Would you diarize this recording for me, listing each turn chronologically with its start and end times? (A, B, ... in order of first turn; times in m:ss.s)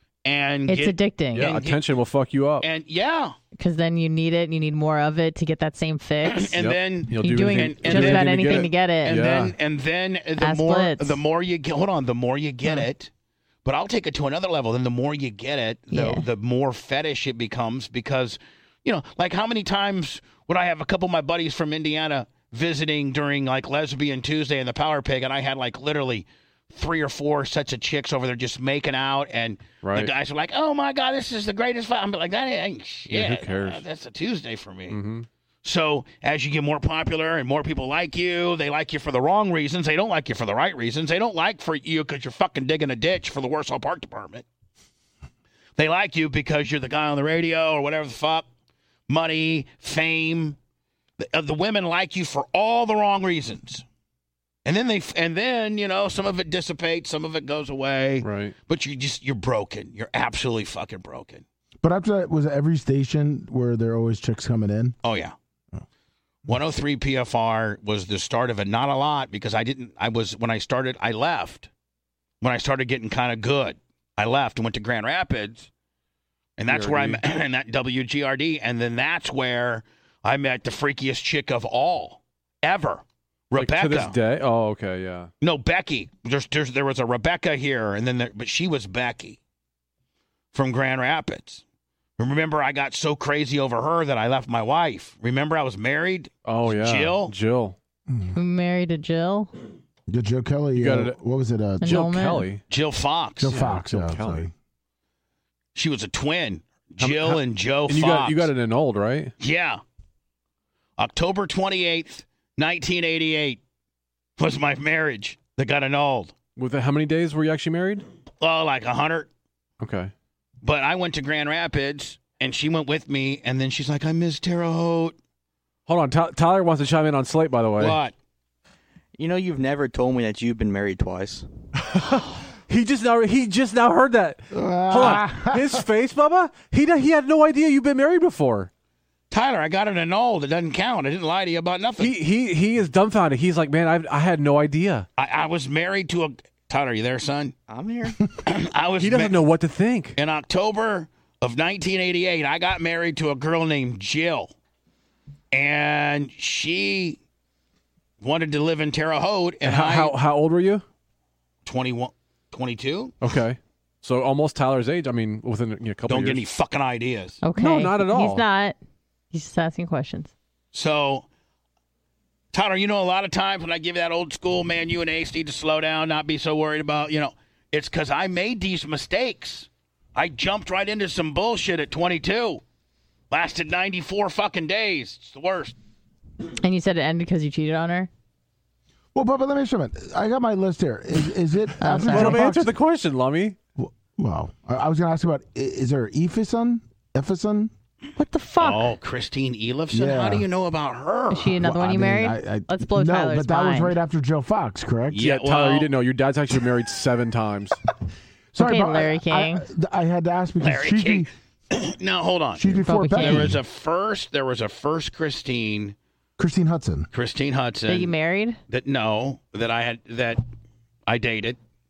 0:00.2-0:01.8 A
0:00.7-0:01.6 B
0:01.3-0:02.7 C
0:02.6-0:03.4 A
0:03.6-0:06.6 B
0:06.2-0:13.1 A
0:06.6-0:09.6 C
0:07.2-0:09.2 B
0:10.4-0:11.2 B
0:13.6-0:35.0 A
0:15.9-0:16.2 B
0:29.8-0:30.1 C
0:33.1-0:33.8 C
0:34.9-0:35.3 C
0:35.6-0:44.4 A
0:45.8-0:48.4 A
0:49.1-0:50.6 A
0:51.2-0:53.8 A
0:54.6-1:01.4 A
0:58.2-0:58.5 C
1:01.8-1:05.0 D
1:05.0-1:05.3 A
1:06.5-1:11.7 A
1:12.4-1:15.7 A
1:16.6-1:24.2 A
1:16.7-1:17.2 C
1:23.6-1:25.3 C
1:25.4-1:29.4 A
1:30.5-1:31.6 A
1:32.2-1:37.3 A
1:36.4-1:37.8 C
1:38.1-1:38.4 D
1:38.3-1:39.5 B
1:40.1-1:42.0 D
1:40.7-1:41.2 C
1:41.8-1:42.5 B
1:41.8-1:42.6 C
1:42.7-1:43.6 A
1:43.4-1:44.5 D
1:43.5-1:44.5 C
1:45.7-1:48.5 A
1:47.0-1:49.3 C
1:49.4-1:49.8 A
1:51.0-1:53.6 A
1:54.4-1:56.3 A
1:56.6-1:58.0 C
1:58.4-1:59.3 A
1:59.8-2:00.1 C
2:00.6-2:05.2 A
2:05.9-2:08.0 C
2:07.8-2:08.1 A
2:09.2-2:11.4 E
2:11.8-2:18.7 C
2:14.5-2:15.8 D
2:19.3-2:22.1 A
2:22.0-2:25.1 C
2:25.2-2:27.5 A
2:27.7-2:28.2 E
2:28.4-2:29.4 A
2:29.0-2:30.2 C
2:30.2-2:34.5 A
2:35.5-2:37.2 A
2:38.2-2:40.1 A
2:39.6-2:40.8 C
2:41.6-2:43.1 A
2:43.2-2:46.4 C
2:46.1-2:47.4 A
2:47.4-2:48.8 B
2:47.6-2:48.4 C
2:49.3-2:50.3 B
2:50.7-2:51.2 A
2:52.5-3:02.6 A
3:03.3-3:05.7 A
3:06.5-3:08.1 B
3:09.1-3:12.7 D
3:11.8-3:12.4 B
3:12.0-3:13.6 C
3:13.8-3:17.7 D
3:18.2-3:18.9 B
3:18.6-3:21.6 A
3:19.9-3:20.5 D
3:21.3-3:23.9 B
3:21.5-3:25.2 D
3:25.1-3:25.9 A
3:25.2-3:27.8 C
3:28.5-3:31.3 D
3:28.6-3:29.7 B
3:30.6-3:36.0 A
3:32.6-3:33.6 D
3:32.8-3:33.5 B
3:36.4-3:37.1 D
3:37.1-3:38.1 A
3:37.9-3:38.6 B
3:38.7-3:40.4 A
3:41.1-3:41.6 A